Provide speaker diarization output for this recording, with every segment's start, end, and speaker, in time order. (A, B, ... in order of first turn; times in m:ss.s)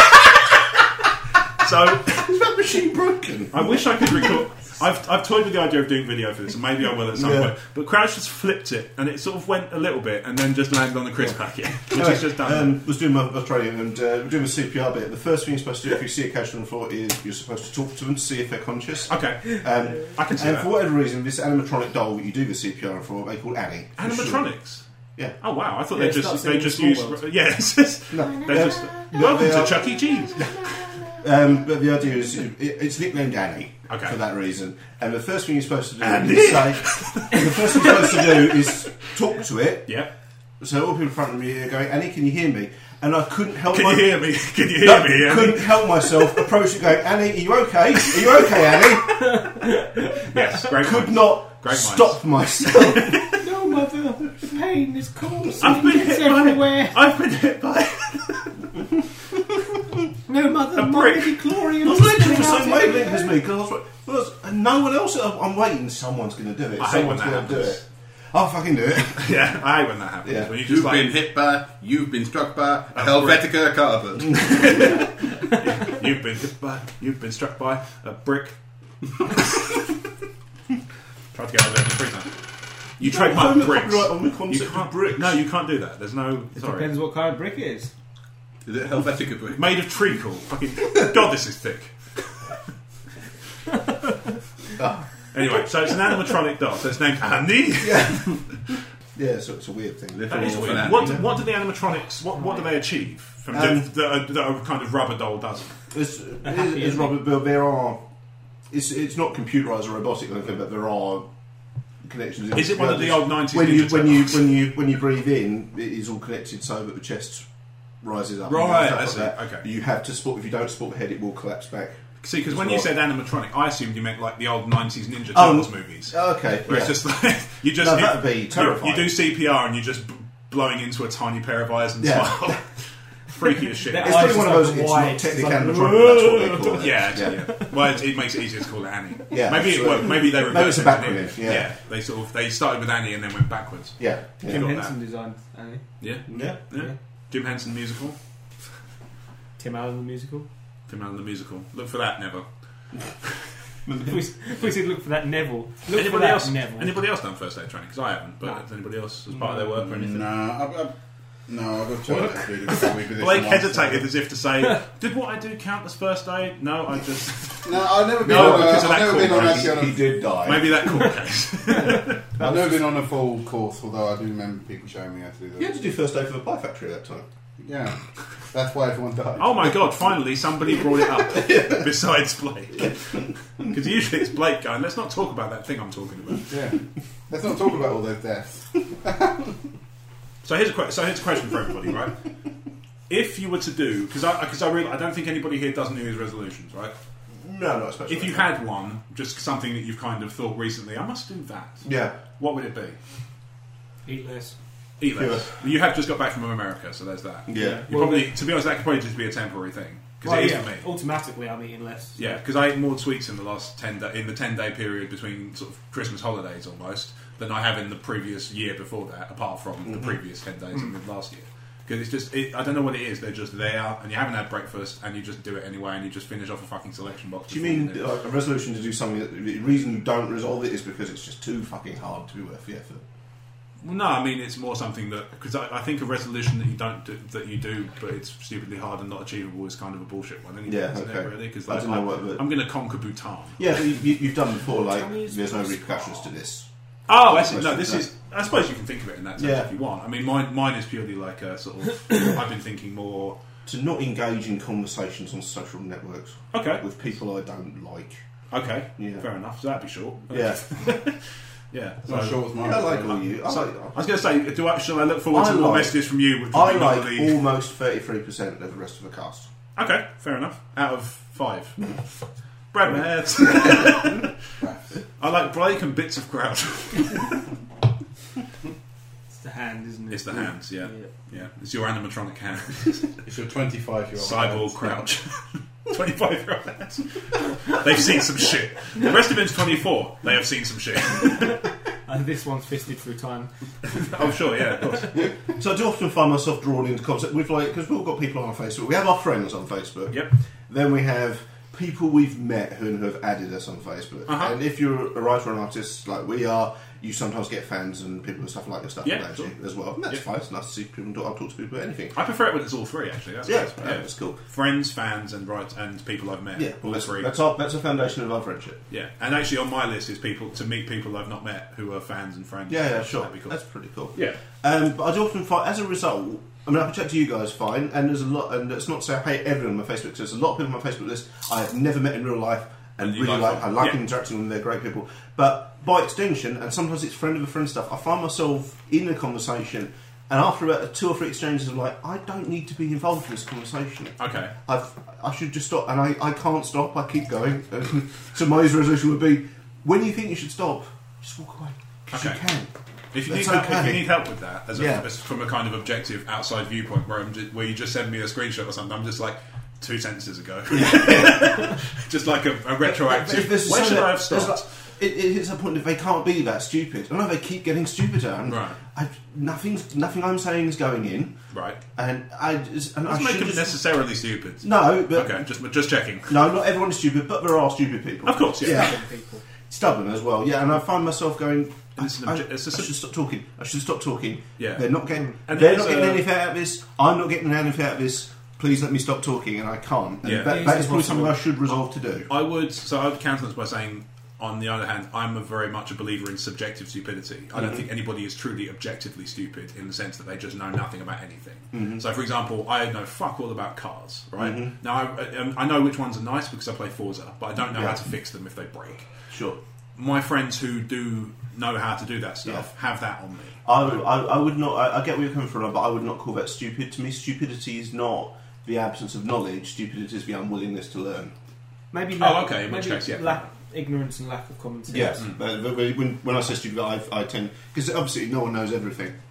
0:01.6-0:02.3 A
0:02.1-0:04.3 B
0:03.5-0:12.7 A
0:07.1-0:07.5 B
0:11.9-0:24.5 B
0:19.1-0:20.7 A
0:24.0-0:24.8 A
0:25.4-0:31.0 A
0:25.9-0:27.2 C
0:28.1-0:30.0 B
0:30.6-0:31.1 C
0:31.1-0:40.0 B
0:33.9-0:34.2 A
0:36.0-0:38.2 A
0:40.6-0:49.5 B
0:43.7-0:46.4 A
0:49.3-0:50.4 C
0:50.1-0:53.3 A
0:50.7-0:53.4 B
0:53.3-0:57.0 C
0:55.6-0:58.7 A
1:00.3-1:03.4 C
1:00.7-1:01.4 A
1:01.6-1:09.4 B
1:06.8-1:07.8 A
1:09.1-1:11.2 A
1:10.2-1:10.5 B
1:10.6-1:14.9 D
1:12.9-1:13.5 A
1:14.4-1:14.8 B
1:14.6-1:18.6 A
1:21.3-1:22.3 A
1:23.0-1:26.9 A
1:23.0-1:25.4 B
1:26.6-1:27.9 C
1:28.6-1:29.6 D
1:29.5-1:32.5 A
1:34.8-1:35.1 B
1:35.3-1:38.6 A
1:37.8-1:41.2 B
1:40.2-1:41.0 D
1:40.3-1:45.7 A
1:43.5-1:43.9 B
1:45.9-1:48.0 B
1:46.4-1:47.1 C
1:48.7-1:51.3 B
1:52.0-1:57.5 B
1:52.5-1:54.4 A
1:58.0-2:02.9 B
1:58.4-1:59.6 A
2:02.2-2:14.4 A
2:05.3-2:07.0 B
2:07.8-2:09.1 B
2:12.0-2:12.6 B
2:13.9-2:17.6 C
2:14.0-2:17.4 B
2:16.7-2:24.9 A
2:19.3-2:21.7 B
2:24.0-2:24.6 B
2:24.4-2:25.9 C
2:26.0-2:28.2 A
2:26.3-2:26.6 B
2:29.6-2:30.5 C
2:30.9-2:32.4 A
2:33.8-2:34.2 B
2:34.0-2:37.0 C
2:35.9-2:40.3 A
2:39.7-2:40.9 D
2:41.5-2:44.1 D
2:43.2-2:52.2 A
2:47.6-2:50.0 D
2:48.2-2:51.0 B
2:51.8-2:52.7 C
2:52.4-2:55.7 D
2:55.6-2:57.2 B
2:57.6-2:59.8 D
2:59.4-3:06.6 A
3:06.5-3:09.6 D
3:10.4-3:12.2 A
3:13.1-3:16.9 A
3:17.4-3:18.5 B
3:18.1-3:23.0 A
3:21.8-3:22.2 B
3:24.0-3:24.6 C
3:25.0-3:30.8 A
3:25.1-3:25.5 B
3:27.5-3:27.8 B
3:27.5-3:28.3 C
3:30.2-3:32.2 C
3:32.2-3:48.0 A
3:47.5-3:53.0 B
3:53.8-4:03.9 A
4:00.6-4:02.4 B
4:03.6-4:06.7 B
4:04.8-4:06.2 C
4:07.1-4:13.4 A
4:07.2-4:08.1 B
4:09.4-4:09.7 B
4:13.6-4:18.2 B
4:16.5-4:16.8 A
4:18.5-4:22.4 A
4:19.0-4:19.2 B
4:20.3-4:20.9 B
4:22.0-4:23.2 D
4:22.6-4:24.0 B
4:23.4-4:27.4 A
4:25.3-4:29.5 B
4:29.8-4:32.0 A
4:32.7-4:34.3 A
4:34.6-4:34.9 D
4:35.2-4:37.4 A
4:39.3-4:41.1 C
4:40.1-4:43.2 A
4:43.2-4:45.0 D
4:44.2-4:51.6 A
4:52.0-4:54.1 C
4:53.9-4:55.3 A
4:55.4-5:12.2 B
5:04.3-5:04.5 A
5:09.0-5:09.5 A
5:12.1-5:17.3 A
5:13.4-5:14.4 B
5:16.6-5:18.8 B
5:18.9-5:23.6 A
5:22.7-5:52.7 B
5:24.1-5:24.4 A
5:33.0-5:34.0 A
5:44.2-5:44.5 A
5:52.1-5:52.4 A
5:53.1-6:04.7 A
5:53.3-5:54.2 B
5:54.7-5:55.0 B
6:00.7-6:01.7 B
6:02.8-6:11.4 B
6:08.5-6:08.8 A
6:11.5-6:11.8 A
6:11.9-6:13.8 B
6:13.0-6:16.4 A
6:14.6-6:15.4 B
6:16.3-6:19.0 B
6:18.2-6:19.0 A
6:18.6-6:19.4 C
6:19.7-6:32.3 B
6:22.0-6:22.9 A
6:24.6-6:26.3 A
6:30.2-6:30.9 A
6:30.4-6:31.4 C
6:32.3-6:49.1 A
6:41.7-6:42.0 B
6:44.4-6:44.7 B
6:47.7-6:48.0 B
6:49.3-6:49.6 B
6:50.0-6:54.0 A
6:53.6-7:01.3 B
7:01.9-7:05.2 C
7:02.1-7:03.4 A
7:04.9-7:09.2 B